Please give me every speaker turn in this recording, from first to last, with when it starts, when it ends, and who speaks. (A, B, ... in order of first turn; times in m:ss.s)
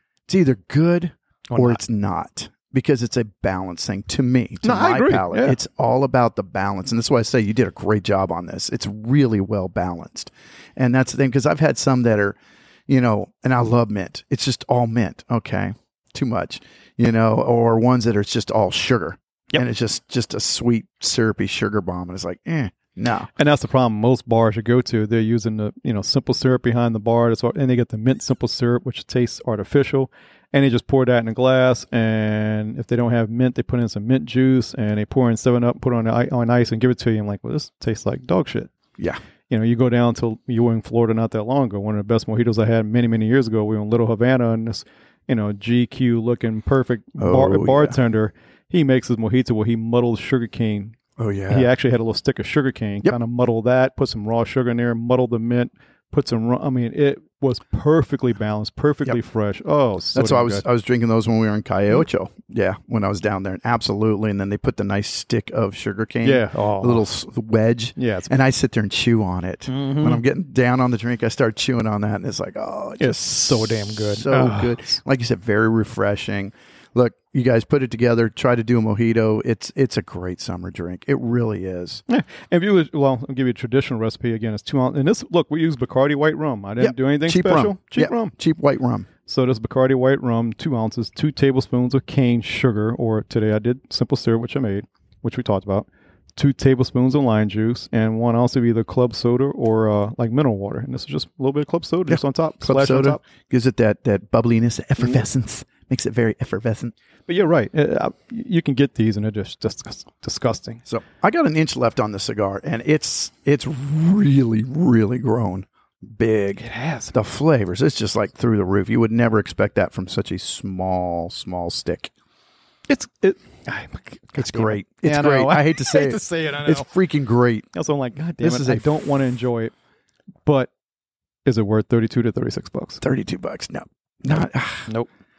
0:00.3-0:23.3 A
0:01.5-0:01.8 B
0:04.6-0:05.6 B
0:23.4-0:38.7 B
0:39.5-0:51.0 B
0:47.2-0:48.0 A
0:51.2-0:51.7 A
0:51.5-1:00.6 B
1:00.1-1:22.0 A
1:06.2-1:07.1 B
1:08.0-1:08.3 B
1:09.7-1:10.2 B
1:13.0-1:14.8 B
1:22.1-1:28.3 B
1:26.8-1:29.1 A
1:29.3-1:43.2 B
1:42.1-1:46.9 A
1:47.3-1:50.8 B
1:50.8-2:02.1 A
1:56.6-1:57.2 B
2:02.9-2:06.9 B
2:04.4-2:07.7 A
2:07.7-2:09.7 B
2:08.4-2:08.9 A
2:10.4-2:10.7 B
2:11.4-2:13.0 B
2:13.0-2:14.9 A